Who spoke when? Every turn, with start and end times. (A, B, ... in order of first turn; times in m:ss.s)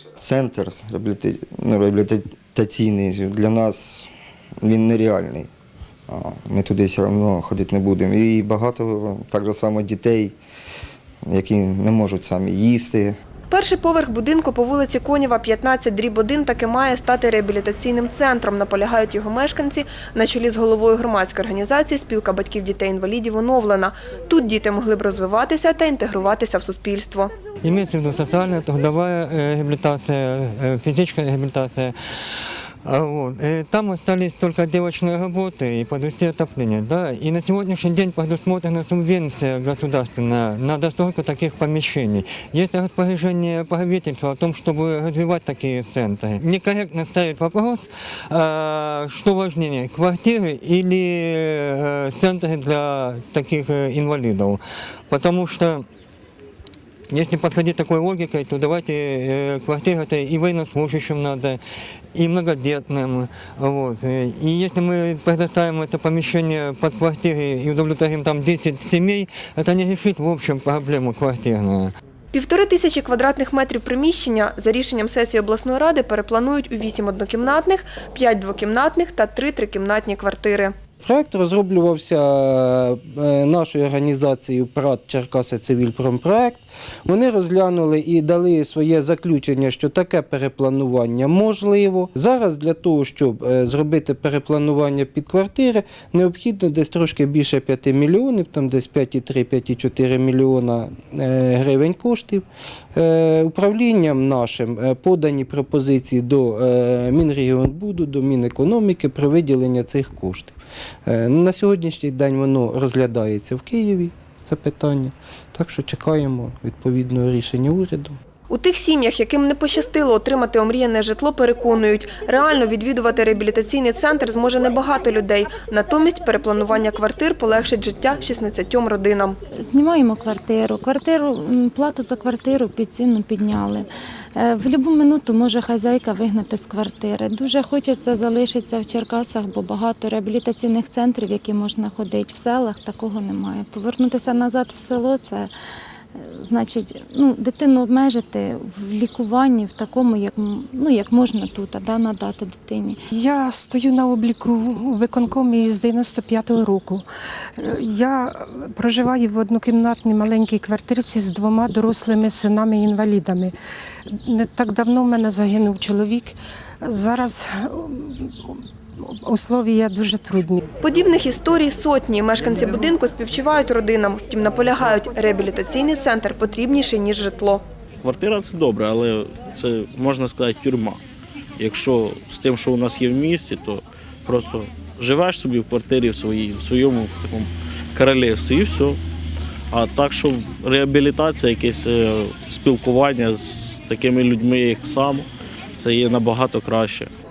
0:00.2-0:04.1 A
0:04.6-0:05.5 A
0:06.1-0:10.4 A
0:11.2-0:13.1 A
0:13.5-0:27.3 B
0:27.6-0:55.8 C
0:57.1-1:01.6 C
1:02.1-1:11.9 C
1:12.3-1:20.7 B
1:21.0-1:50.5 D
1:51.0-1:58.2 D
1:58.5-2:09.4 B
2:09.6-2:25.5 E
2:26.2-2:33.0 E
2:33.1-2:43.5 F
2:44.1-2:50.6 F
2:50.8-2:57.6 B
2:58.0-3:01.0 G
3:01.6-3:09.0 G
3:09.7-3:15.3 G
3:15.8-3:17.1 G